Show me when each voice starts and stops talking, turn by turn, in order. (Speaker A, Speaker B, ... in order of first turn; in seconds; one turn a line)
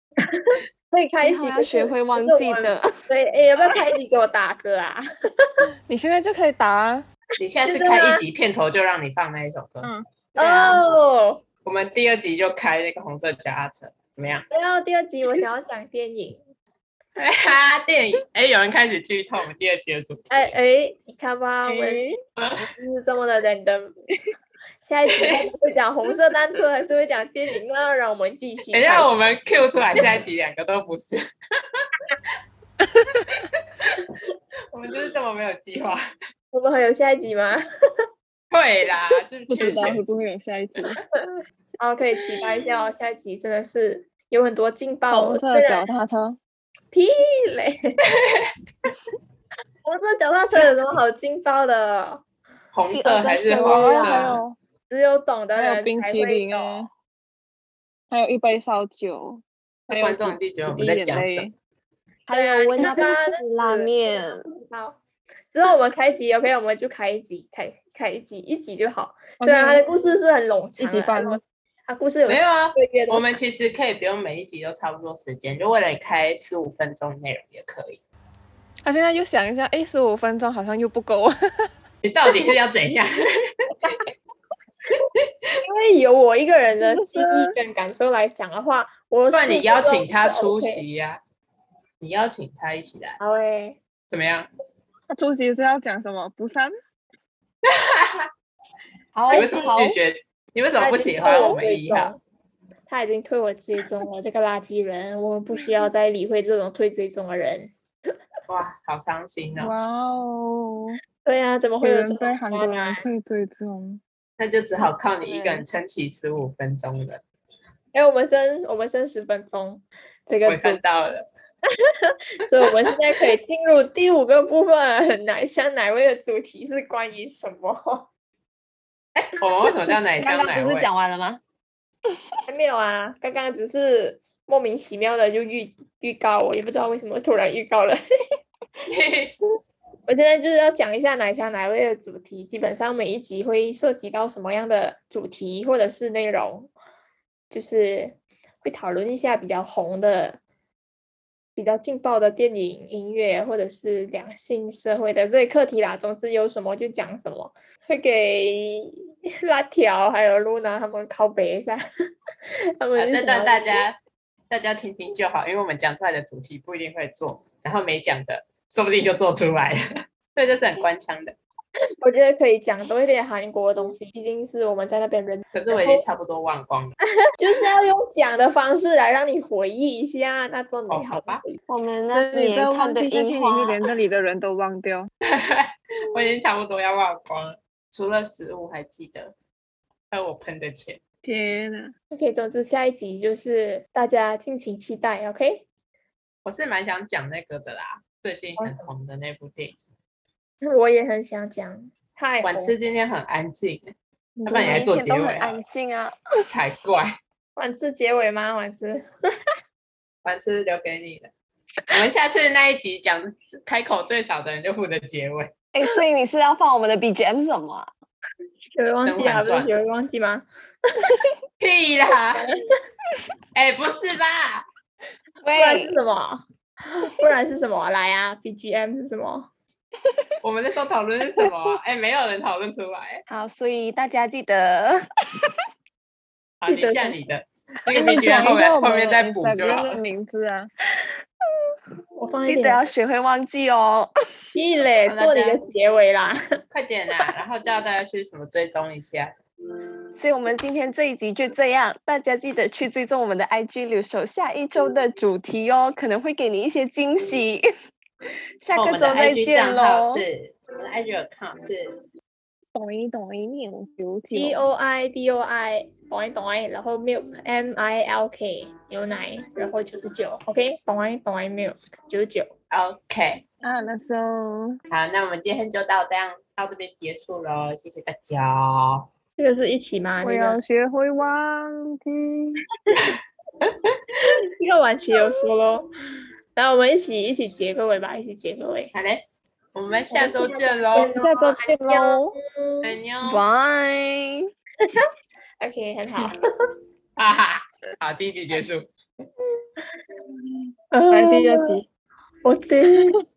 Speaker A: 0.3-5.0
Speaker B: 1.2-2.9
Speaker C: 5.9-7.0
Speaker D: 7.4-9.9
Speaker A: 7.6-8.2
Speaker A: 10.3-11.4
Speaker D: 11.6-14.4
Speaker A: 14.5-16.4
Speaker D: 17.1-20.5
Speaker A: 20.3-22.0
Speaker E: 21.7-22.2
Speaker D: 22.4-22.7
Speaker A: 22.6-23.9
Speaker A: 24.8-29.1
Speaker D: 25.2-25.4
Speaker D: 28.7-31.2
Speaker D: 33.3-34.1
Speaker D: 34.7-36.0
Speaker A: 36.5-37.6
Speaker D: 38.5-40.0
Speaker E: 39.5-41.0
Speaker A: 41.8-45.9
Speaker E: 45.1-46.4
Speaker A: 46.9-47.8
Speaker A: 49.9-52.2
Speaker D: 52.7-54.4
Speaker B: 52.9-54.4
Speaker E: 53.6-54.6
Speaker A: 54.9-56.9
Speaker E: 55.5-56.9
Speaker E: 58.1-61.5
Speaker D: 59.9-61.5
Speaker B: 62.3-64.5
Speaker A: 62.3-65.0
Speaker E: 62.8-63.0
Speaker A: 65.5-73.4
Speaker E: 69.4-69.8
Speaker E: 70.8-71.4
Speaker D: 72.3-78.0
Speaker C: 78.8-81.7
Speaker D: 82.0-83.2
Speaker A: 85.6-90.8
Speaker E: 86.8-87.5
Speaker D: 89.3-91.2
Speaker D: 92.0-93.2
Speaker A: 93.2-93.8
Speaker D: 94.1-94.5
Speaker E: 95.1-96.7
Speaker D: 97.6-98.3
Speaker B: 99.1-100.0
Speaker A: 99.3-99.8
Speaker D: 99.3-102.2
Speaker A: 100.8-102.2
Speaker A: 102.9-107.7
Speaker D: 108.5-109.7
Speaker E: 109.6-111.0
Speaker A: 111.2-113.1
Speaker E: 111.8-114.0
Speaker D: 114.4-117.2
Speaker B: 115.2-115.6
Speaker A: 117.9-120.8
Speaker D: 120.5-121.3
Speaker A: 122.1-128.1
Speaker D: 129.1-130.9
Speaker B: 130.2-131.4
Speaker A: 132.5-138.0
Speaker D: 138.9-139.4
Speaker A: 140.1-146.7
Speaker A: 147.5-150.4
Speaker A: 151.6-161.8
Speaker A: 162.8-163.8
Speaker D: 162.9-164.0
Speaker D: 164.5-169.8
Speaker D: 170.3-171.4
Speaker A: 172.0-176.0
Speaker D: 175.5-177.0
Speaker A: 177.4-181.6
Speaker D: 180.9-181.4
Speaker B: 181.7-183.8
Speaker E: 182.1-185.1
Speaker D: 185.2-189.3
Speaker D: 190.1-191.0
Speaker E: 191.2-191.9
Speaker A: 192.1-195.7
Speaker D: 196.4-199.8
Speaker A: 198.6-198.8
Speaker A: 200.6-202.7
Speaker D: 202.4-203.9
Speaker B: 204.4-206.2
Speaker D: 204.4-205.6
Speaker D: 206.4-207.2
Speaker A: 207.6-209.1
Speaker D: 210.2-211.3
Speaker D: 211.9-215.5
Speaker B: 215.7-217.9
Speaker A: 218.7-220.4
Speaker D: 219.0-219.7
Speaker D: 221.6-222.4
Speaker D: 223.5-224.6
Speaker B: 225.4-225.9
Speaker A: 225.5-226.4
Speaker A: 227.0-229.5
Speaker D: 230.4-233.2
Speaker B: 233.3-235.5
Speaker D: 236.6-240.0
Speaker A: 236.7-237.2
Speaker E: 237.9-240.7
Speaker A: 242.2-242.9
Speaker B: 242.4-244.1
Speaker A: 244.5-246.4
Speaker D: 245.1-245.6
Speaker D: 246.7-249.3
Speaker B: 250.2-257.6
Speaker B: 258.6-260.2
Speaker D: 258.7-262.0
Speaker E: 262.7-264.6
Speaker A: 264.3-272.5
Speaker D: 272.7-273.4
Speaker E: 273.6-274.8
Speaker D: 274.9-279.1
Speaker A: 279.4-280.6
Speaker E: 280.2-282.6
Speaker A: 284.6-285.9
Speaker A: 286.5-288.9
Speaker D: 288.9-291.1
Speaker A: 290.1-292.9
Speaker E: 291.1-292.4
Speaker D: 292.8-293.4
Speaker B: 293.2-294.5
Speaker A: 295.6-296.4
Speaker D: 297.2-298.9
Speaker A: 300.9-301.8
Speaker E: 301.1-301.9
Speaker A: 302.4-303.2